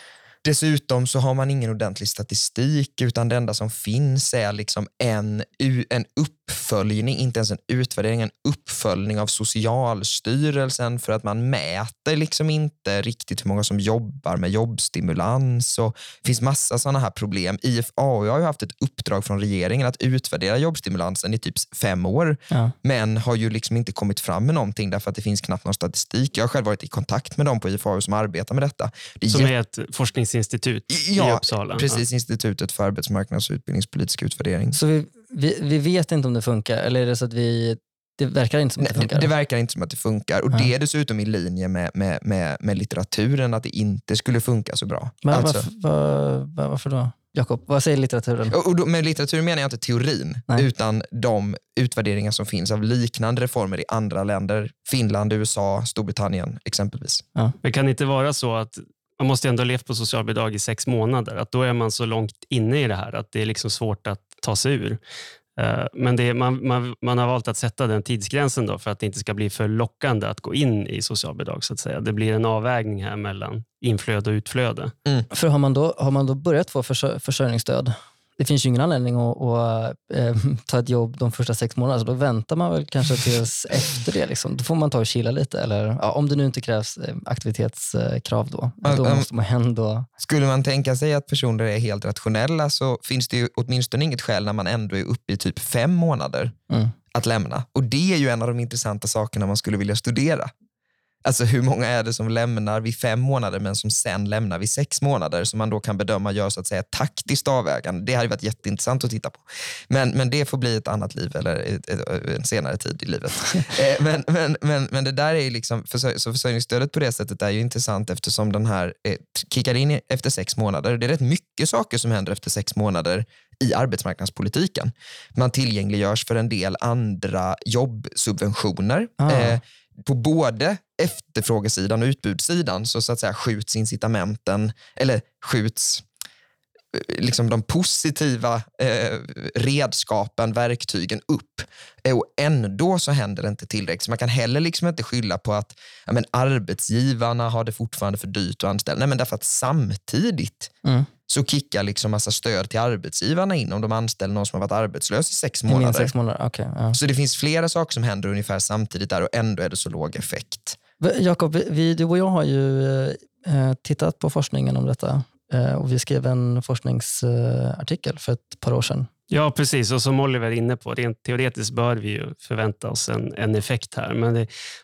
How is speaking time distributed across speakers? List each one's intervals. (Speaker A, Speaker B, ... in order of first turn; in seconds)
Speaker A: 0.4-29.5, 30.9-34.8, 38.8-45.7, 48.5-57.2, 88.8-89.3, 90.2-96.5, 97.1-100.5, 101.2-136.1, 136.9-150.7, 151.3-156.1, 156.9-160.8
Speaker B: 29.3-32.0, 57.6-65.0, 65.6-74.9, 169.3-174.5
Speaker C: 34.7-39.3, 45.2-48.5, 75.3-90.1, 129.2-129.6, 155.7-157.0, 161.0-169.1